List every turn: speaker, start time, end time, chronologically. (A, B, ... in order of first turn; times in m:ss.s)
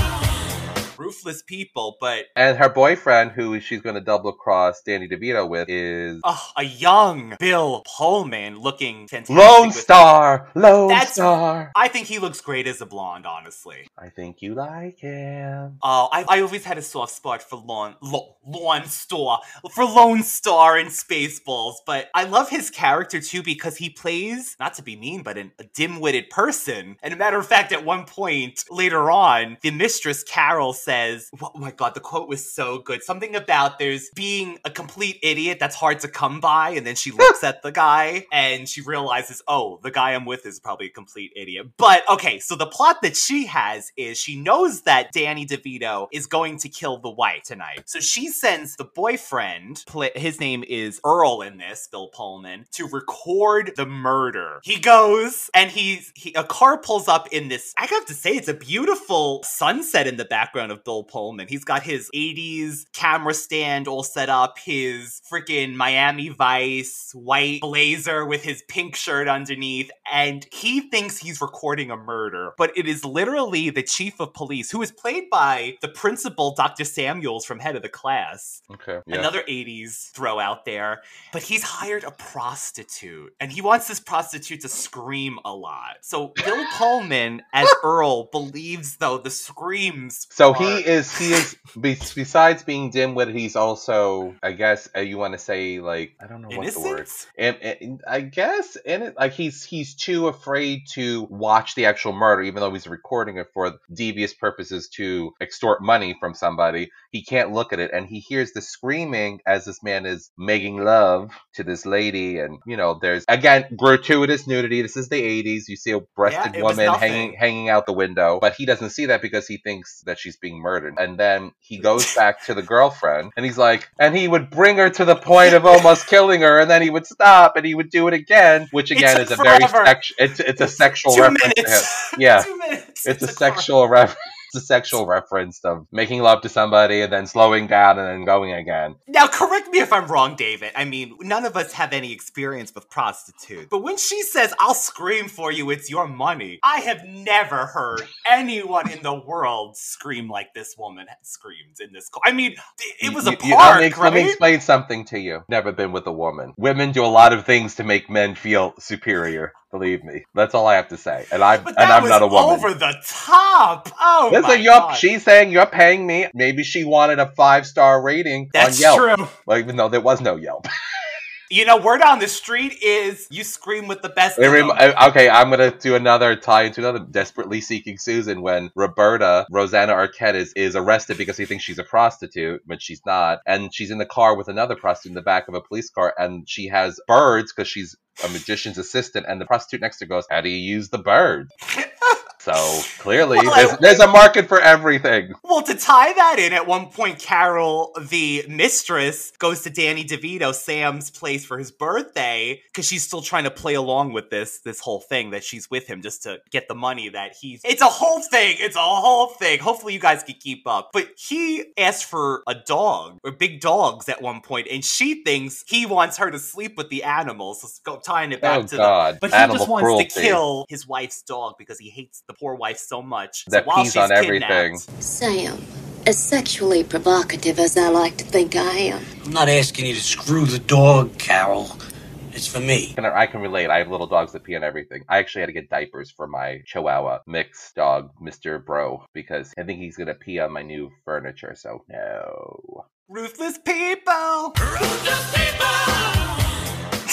0:01.0-0:02.3 A
0:02.4-0:06.2 B
0:06.2-0:10.1 A
0:09.3-0:11.7 B
0:10.8-0:13.9 A
0:14.0-0:15.8 B
0:15.8-1:31.4 A
1:18.7-1:19.3 B
1:30.3-2:12.5 B
1:36.5-1:37.2 A
1:56.2-1:57.4 A
2:05.4-2:05.9 A
2:08.9-2:10.0 A
2:11.0-2:13.7 A
2:13.0-2:19.0 B
2:19.1-2:34.4 A
2:33.0-2:42.7 B
2:41.6-2:45.1 A
2:44.3-2:50.7 B
2:48.5-2:49.3 A
2:51.5-2:54.8 A
2:54.4-3:11.5 B
3:11.8-3:12.1 A
3:12.4-3:15.4 B
3:13.3-3:14.1 A
3:15.4-3:44.8 A
3:38.4-3:40.4 B
3:43.5-3:44.8 B
3:45.0-3:49.1 C
3:49.2-3:51.7 D
3:52.3-3:52.9 D
3:53.0-4:02.8 B
4:03.1-4:04.5 A